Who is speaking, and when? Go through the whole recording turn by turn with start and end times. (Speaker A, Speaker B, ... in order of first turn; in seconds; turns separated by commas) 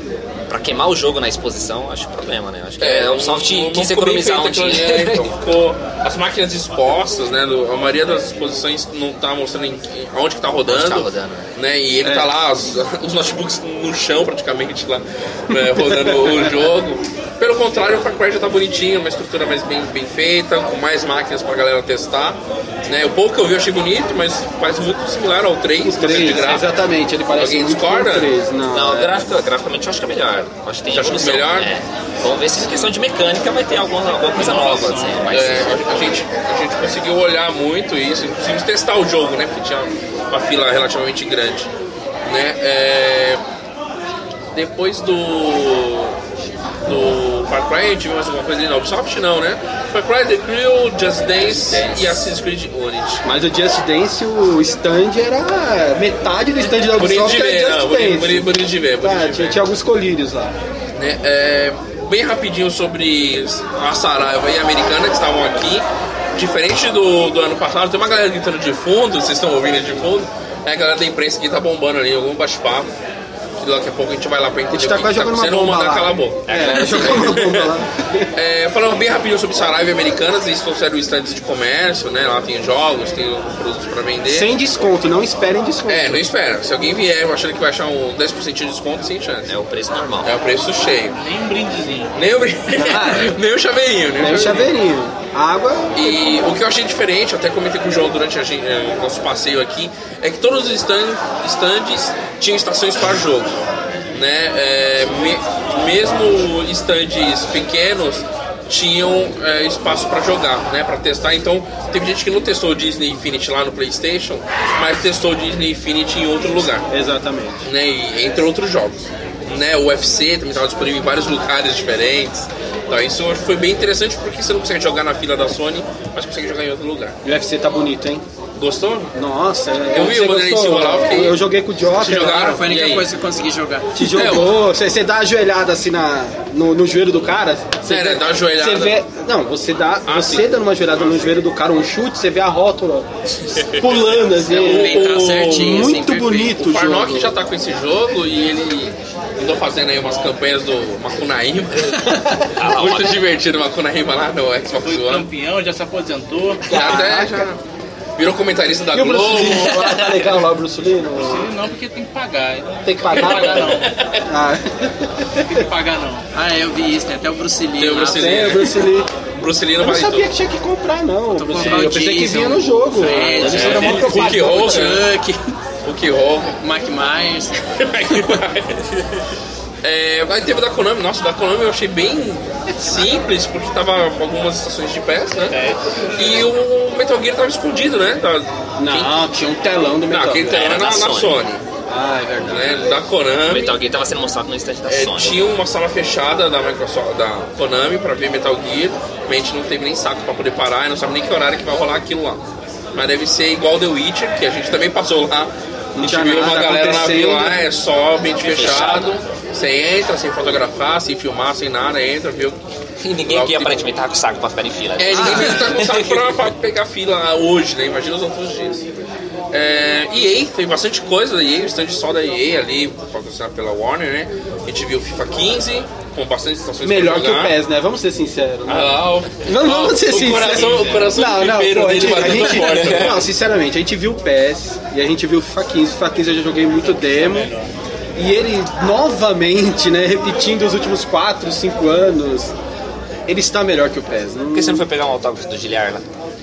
Speaker A: 0.5-5.3, Speaker B: 2.8-26.7, Speaker A: 10.7-11.5, Speaker C: 12.0-12.3, Speaker C: 15.5-16.3, Speaker C: 25.8-29.3, Speaker B: 27.4-28.3, Speaker A: 28.7-36.0, Speaker B: 30.9-31.7, Speaker D: 34.4-35.2, Speaker B: 34.4-41.7, Speaker B: 42.2-43.4, Speaker B: 44.5-46.2, Speaker B: 46.9-53.2, Speaker A: 51.4-52.2, Speaker C: 53.2-60.5, Speaker B: 56.8-59.6, Speaker B: 61.0-72.9, Speaker B: 73.6-77.8, Speaker C: 74.7-78.3, Speaker A: 76.5-77.5, Speaker B: 78.3-84.5, Speaker C: 84.2-86.3, Speaker B: 85.9-89.5, Speaker A: 89.5-90.3, Speaker B: 90.2-91.2, Speaker D: 91.1-92.2, Speaker B: 92.2-94.7, Speaker C: 92.8-93.4, Speaker C: 94.2-96.5, Speaker B: 95.9-103.5, Speaker B: 104.1-116.9, Speaker C: 116.9-117.6, Speaker B: 117.6-127.2, Speaker C: 127.2-128.2, Speaker B: 128.6-129.1, Speaker C: 129.1-132.6, Speaker B: 129.9-131.4, Speaker B: 131.9-133.1, Speaker E: 132.2-134.0, Speaker C: 133.9-143.1, Speaker B: 134.0-134.6, Speaker B: 137.9-139.0, Speaker B: 140.1-141.1, Speaker C: 143.6-147.3, Speaker E: 144.5-146.5, Speaker B: 144.5-155.3, Speaker A: 152.6-153.2, Speaker D: 154.8-156.8, Speaker B: 156.7-157.6, Speaker C: 156.7-157.5, Speaker B: 158.2-160.2, Speaker C: 158.9-161.5, Speaker D: 161.2-163.9, Speaker C: 162.8-165.6, Speaker B: 163.1-164.2, Speaker D: 165.4-166.2, Speaker E: 166.3-168.6, Speaker B: 167.8-170.3, Speaker C: 168.0-169.1, Speaker C: 169.8-174.6, Speaker E: 171.4-175.6, Speaker B: 171.6-171.9, Speaker B: 173.2-175.1, Speaker D: 173.2-174.4, Speaker B: 175.8-176.6, Speaker E: 176.6-177.6, Speaker B: 177.6-178.9, Speaker B: 179.8-185.6, Speaker A: 185.5-185.8, Speaker B: 186.2-189.3, Speaker C: 188.8-190.7, Speaker B: 190.1-191.6, Speaker A: 190.4-191.4, Speaker C: 191.9-192.9, Speaker B: 192.4-193.8, Speaker A: 193.5-195.4, Speaker B: 194.9-202.4, Speaker B: 202.9-212.6, Speaker C: 205.9-207.6, Speaker A: 208.4-209.2, Speaker A: 213.0-216.4, Speaker B: 213.3-213.8, Speaker B: 215.0-218.8, Speaker C: 215.1-215.8, Speaker B: 219.5-227.6, Speaker C: 226.8-237.5, Speaker B: 228.7-233.3, Speaker D: 230.6-231.1, Speaker A: 232.2-233.2, Speaker D: 236.9-237.6, Speaker C: 238.2-242.6, Speaker C: 243.3-244.9, Speaker A: 244.5-246.1